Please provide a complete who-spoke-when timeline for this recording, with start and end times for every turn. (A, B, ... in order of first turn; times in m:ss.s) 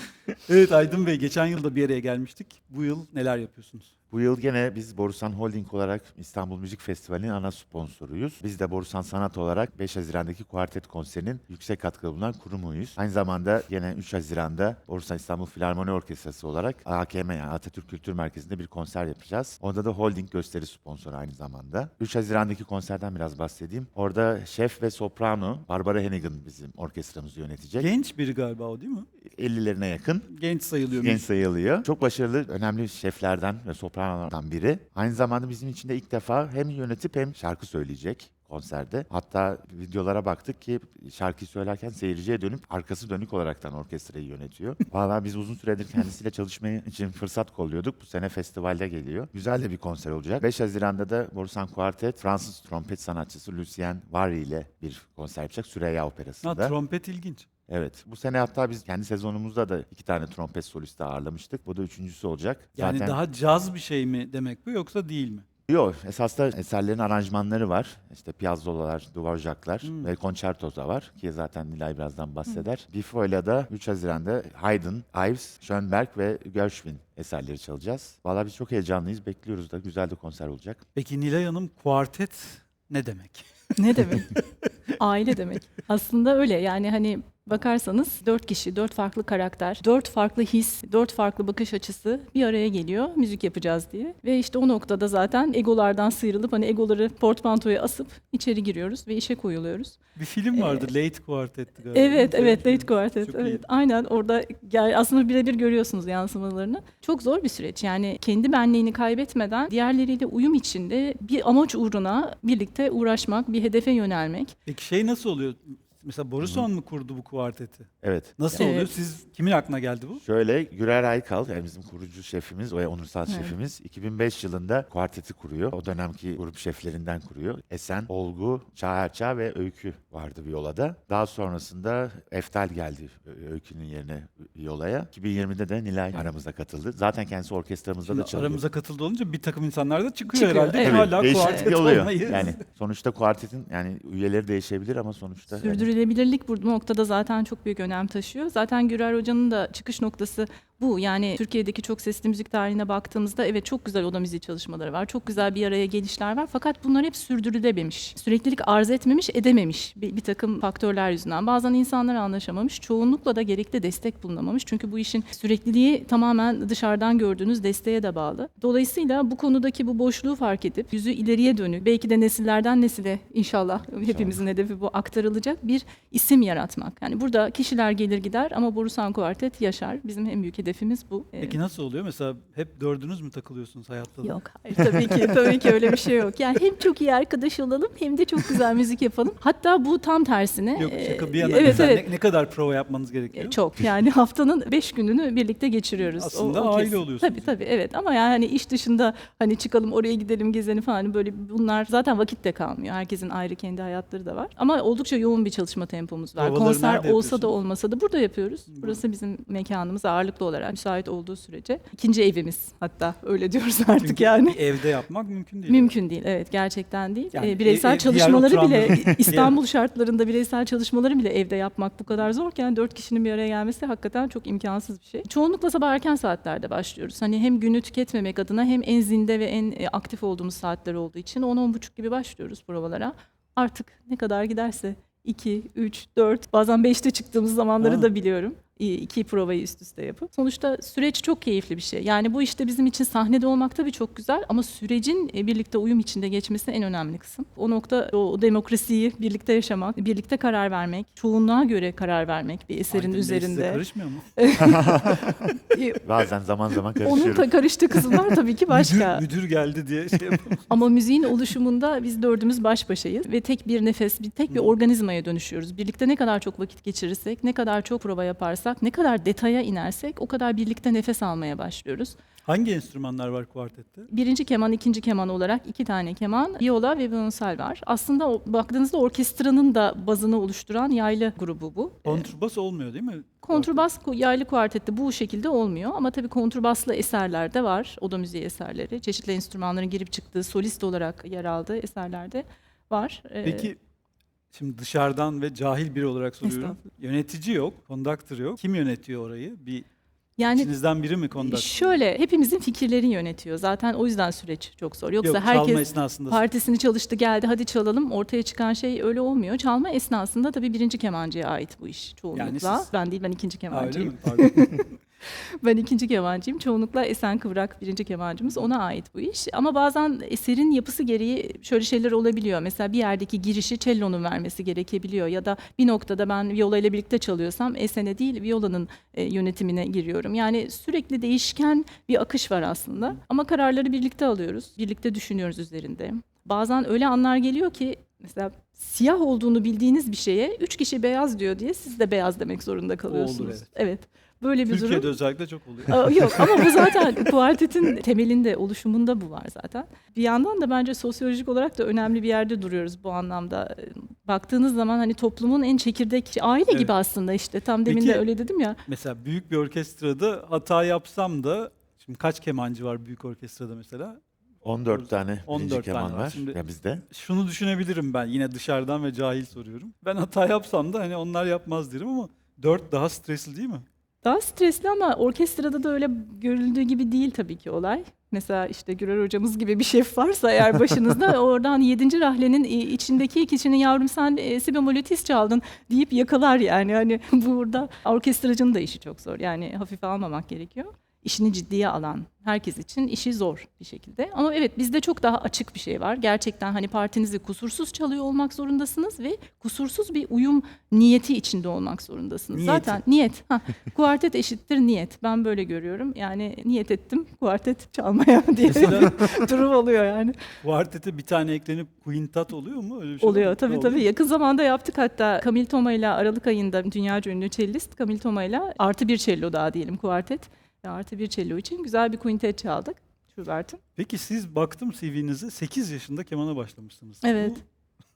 0:00.5-0:03.9 A
0:04.1-0:27.9 B
0:27.8-0:29.1 A
0:29.3-0:30.3 B
0:30.3-0:31.2 A
0:31.0-0:56.8 B
0:56.4-0:57.5 A
0:57.7-1:03.2 B
1:02.8-1:05.4 A
1:05.7-1:20.8 B
1:09.8-1:10.1 A
1:21.0-1:23.5 A
1:23.8-1:24.4 C
1:25.0-1:40.0 C
1:40.2-1:43.6 A
1:40.5-1:40.9 C
1:41.9-1:54.5 C
1:54.7-2:00.2 A
1:56.4-1:56.7 B
1:58.0-1:58.5 B
1:58.5-1:58.9 C
2:00.2-2:18.6 B
2:03.3-2:03.6 C
2:18.1-2:22.6 A
2:20.3-2:22.1 C
2:20.8-2:25.9 B
2:25.5-3:01.6 C
2:54.0-2:54.4 B
3:01.4-3:05.1 A
3:04.2-3:12.1 C
3:10.8-3:13.6 A
3:13.4-3:34.7 C
3:16.0-3:17.5 A
3:26.4-3:27.5 A
3:28.7-3:29.0 A
3:34.0-3:35.9 A
3:35.7-4:13.8 C
3:37.3-3:39.6 A
3:57.8-3:58.1 A
4:12.9-4:14.3 A
4:14.4-4:16.0 C
4:14.6-4:15.3 B
4:16.0-4:17.6 B
4:17.0-4:19.2 C
4:18.7-4:20.7 A
4:20.7-4:32.2 C
4:24.5-4:24.8 A
4:32.4-4:34.1 A
4:34.1-4:42.3 C
4:42.0-4:43.8 A
4:43.4-4:53.7 C
4:53.4-4:53.8 A
4:54.5-4:59.9 A
4:56.4-4:56.8 C
5:00.4-5:00.7 C
5:00.6-5:01.7 A
5:01.4-5:45.1 C
5:05.2-5:06.4 A
5:12.4-5:12.9 A
5:13.7-5:14.8 A
5:43.1-5:43.7 A
5:44.7-5:47.3 A
5:45.9-5:58.8 C
5:56.7-5:56.9 A
5:57.9-5:58.3 A
5:58.9-6:04.2 A
6:04.6-6:07.0 B
6:04.9-6:06.6 A
6:07.1-6:13.8 A
6:14.2-6:50.4 C
6:42.5-6:43.0 A
6:48.7-6:49.3 A
6:50.6-6:54.0 A
6:53.2-7:03.8 C
7:04.0-7:07.6 A
7:07.2-7:07.6 C